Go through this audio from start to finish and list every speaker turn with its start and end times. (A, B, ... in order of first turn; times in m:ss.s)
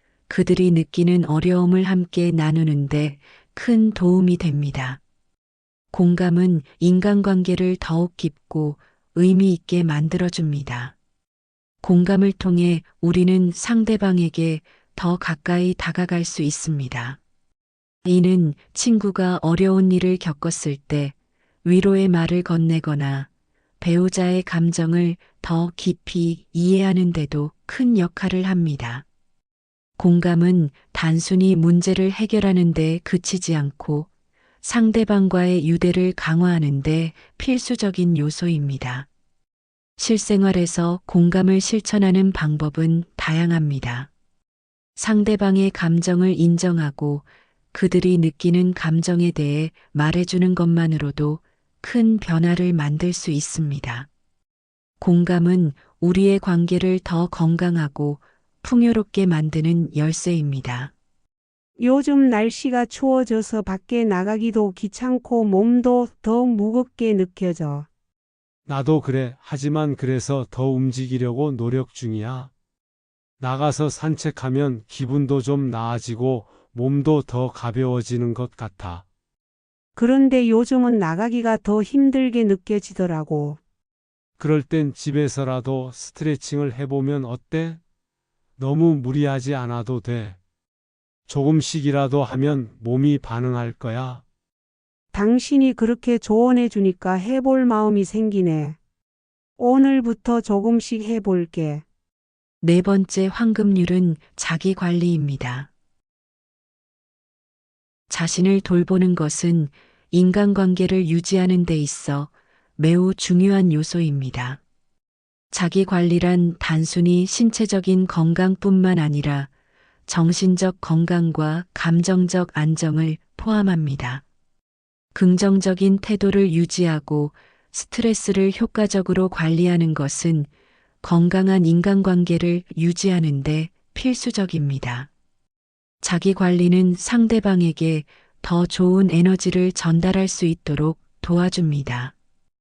0:00.3-0:05.0 A
0:05.9-0:11.0 A
0:11.8-0:17.2 A
0:18.0-0:23.3 A
0:23.8-0:29.0 A
0:30.0-0:34.1 A
0:34.6-0:39.1 A
0:40.0-0:44.1 A
0:45.0-0:54.1 A
0:55.0-1:00.9 A
1:01.8-1:07.9 B
1:08.7-1:12.5 C
1:13.4-1:19.0 C
1:20.0-1:23.6 B
1:24.4-1:27.8 C
1:28.6-1:30.4 C
1:31.3-1:34.2 C
1:35.1-1:38.8 B
1:39.6-1:41.8 B
1:42.6-1:45.7 A
1:48.1-1:54.6 A
1:55.5-1:59.5 A
2:00.1-2:04.2 A
2:05.2-2:10.5 A
2:11.0-2:15.1 A
2:16.0-2:22.2 A